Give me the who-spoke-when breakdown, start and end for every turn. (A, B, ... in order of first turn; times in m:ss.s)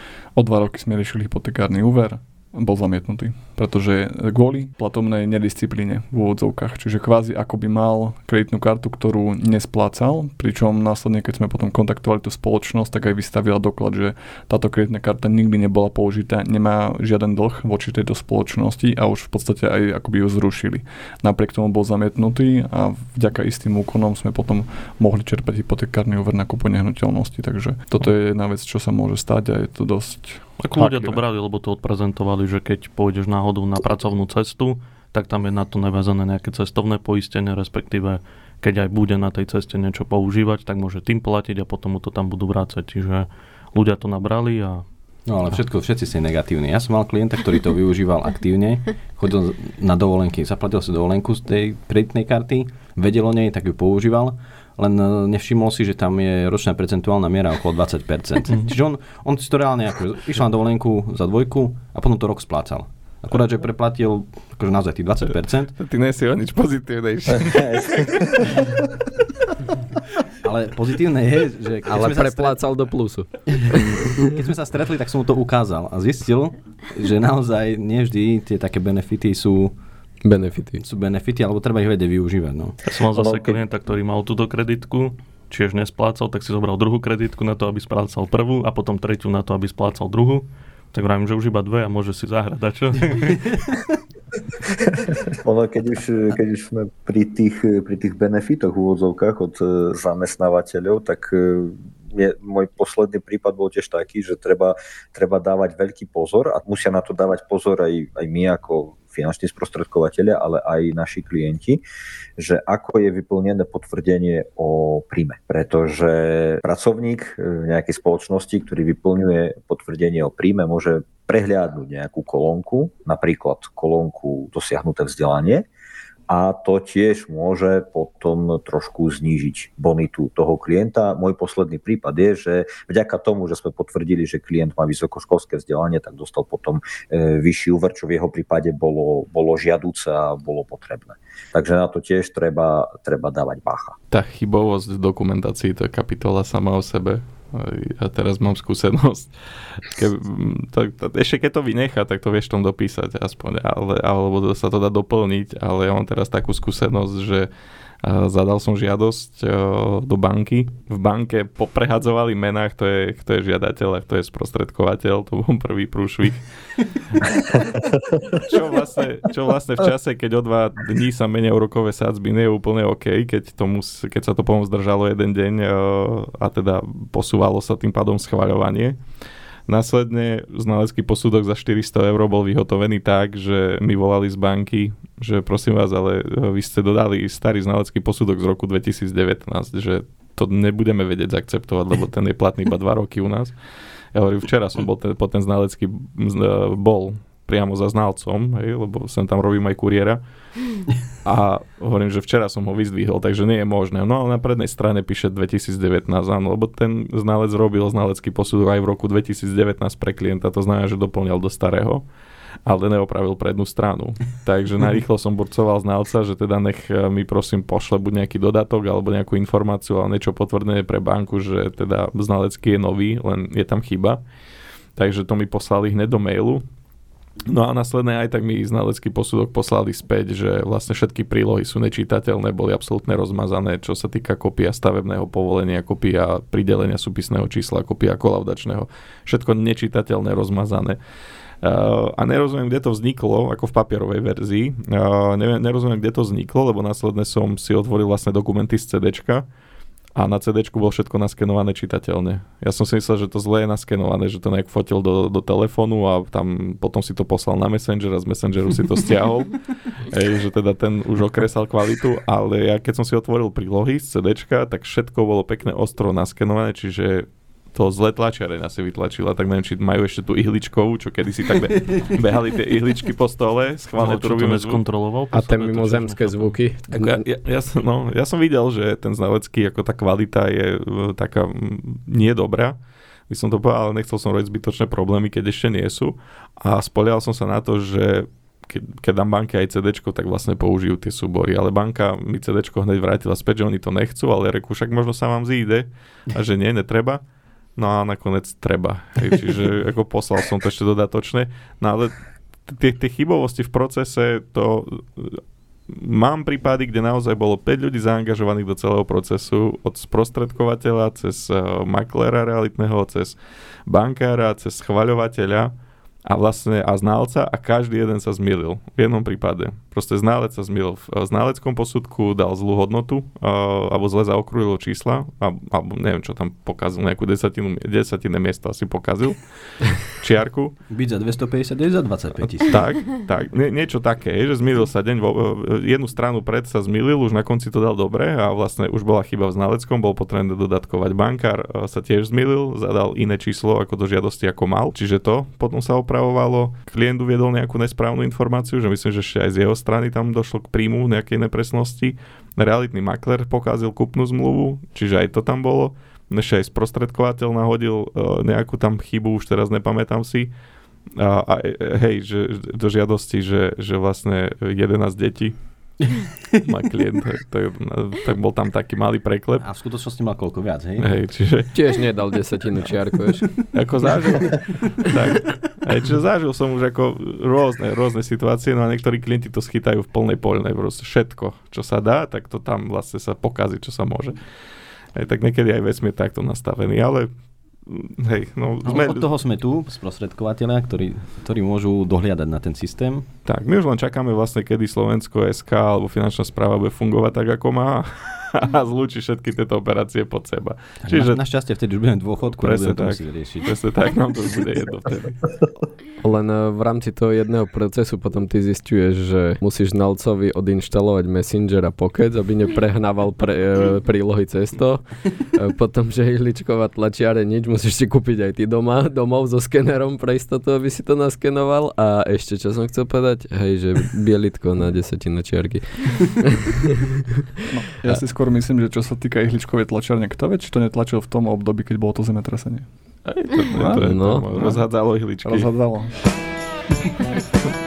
0:00.3-0:31.1 A
0:30.6-0:44.9 B
0:45.2-1:05.7 C
1:05.8-1:08.1 D
1:07.5-1:08.2 E
1:10.4-1:12.7 C
1:11.9-1:14.3 F
1:13.5-1:19.7 C
1:20.2-1:20.8 F
1:20.8-1:22.8 C
1:22.8-1:33.6 B
1:23.1-1:23.6 E
1:35.3-1:51.8 E
1:52.4-2:05.7 E
2:06.3-2:24.0 E
2:24.1-2:37.5 D
2:38.0-2:46.5 D
2:47.2-2:47.6 D
2:48.4-2:59.0 D
2:59.7-3:13.5 D
3:14.1-3:20.2 D
3:21.2-3:32.0 D
3:32.6-3:44.2 D
3:45.0-3:46.6 D
3:47.5-4:01.0 D
4:01.6-4:09.4 D
4:10.2-4:34.8 D
4:34.0-4:36.6 B
4:35.3-4:37.2 F
4:36.9-4:42.8 D
4:43.3-4:57.2 D
4:57.8-5:02.1 D
5:02.7-5:15.7 D
5:16.2-5:30.8 D
5:30.9-5:32.8 C
5:32.4-6:00.5 D
6:01.2-6:06.1 D
6:06.6-6:09.7 D
6:09.6-6:11.2 C
6:11.0-6:12.0 D
6:11.7-6:13.6 F
6:13.6-6:24.4 D
6:25.2-6:27.3 D
6:27.8-6:29.3 D
6:28.8-6:33.3 C
6:33.4-6:41.4 D
6:41.0-6:43.7 C
6:42.5-6:45.6 D
6:46.2-7:06.7 F
7:07.7-7:12.9 A
7:13.2-7:15.8 D
7:13.7-7:16.2 A
7:13.8-7:14.4 F